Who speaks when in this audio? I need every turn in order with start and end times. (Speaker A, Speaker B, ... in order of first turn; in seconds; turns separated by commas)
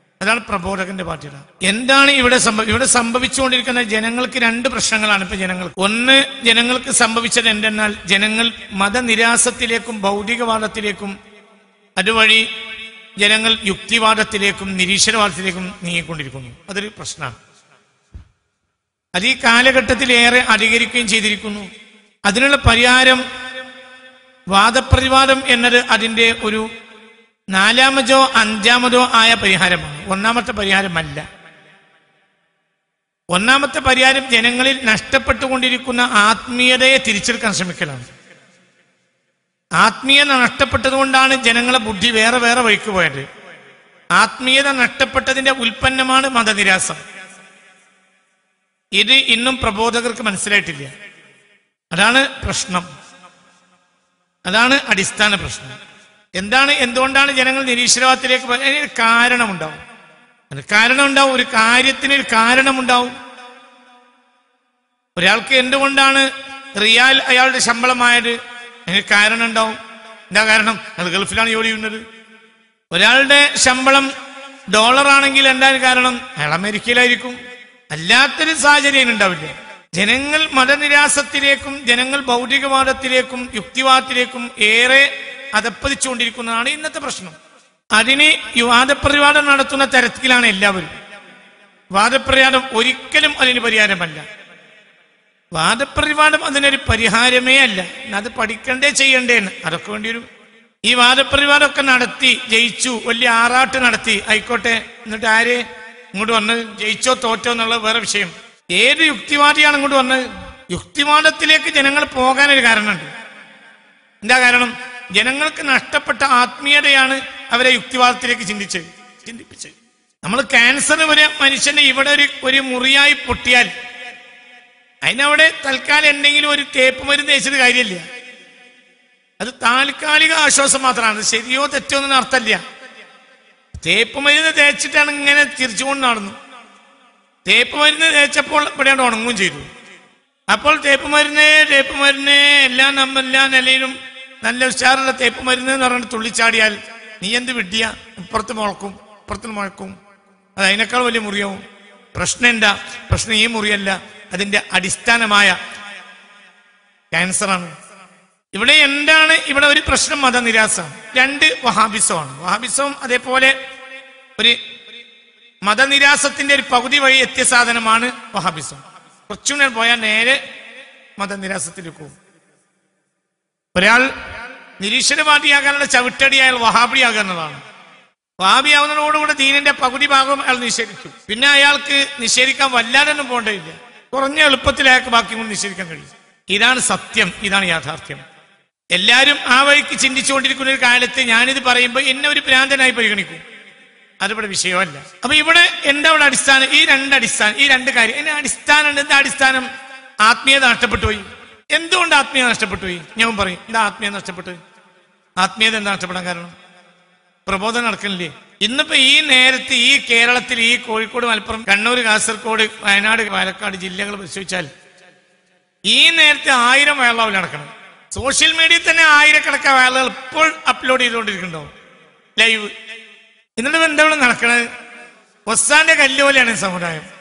Speaker A: 0.2-11.2, Speaker A: 12.0-12.5, Speaker A: 13.2-17.4, Speaker A: 19.1-21.7, Speaker A: 22.2-23.2, Speaker A: 24.5-26.7, Speaker A: 27.5-31.2, Speaker A: 33.3-38.1, Speaker A: 39.8-43.2, Speaker A: 44.1-47.0, Speaker A: 49.0-50.9, Speaker A: 51.9-52.9, Speaker A: 54.5-55.8, Speaker A: 56.4-59.8, Speaker A: 60.5-63.2, Speaker A: 65.2-69.8, Speaker A: 70.3-72.0, Speaker A: 72.9-74.1, Speaker A: 74.7-77.4, Speaker A: 77.9-87.3, Speaker A: 87.9-90.9, Speaker A: 91.9-94.2, Speaker A: 95.5-100.2, Speaker A: 100.8-113.1, Speaker A: 114.2-123.7, Speaker A: 125.0-128.0, Speaker A: 129.4-132.6, Speaker A: 133.8-136.3, Speaker A: 137.4-139.7, Speaker A: 140.5-149.9, Speaker A: 150.6-151.6, Speaker A: 152.1-155.6, Speaker A: 157.1-157.7, Speaker A: 158.5-163.5, Speaker A: 165.6-170.4, Speaker A: 171.2-172.1, Speaker A: 173.7-174.1, Speaker A: 174.8-177.6, Speaker A: 178.4-188.2, Speaker A: 188.9-193.4, Speaker A: 194.2-199.7, Speaker A: 200.2-204.6, Speaker A: 205.4-206.5, Speaker A: 207.4-214.7, Speaker A: 215.9-221.7, Speaker A: 222.4-222.7, Speaker A: 223.6-224.7, Speaker A: 225.5-227.0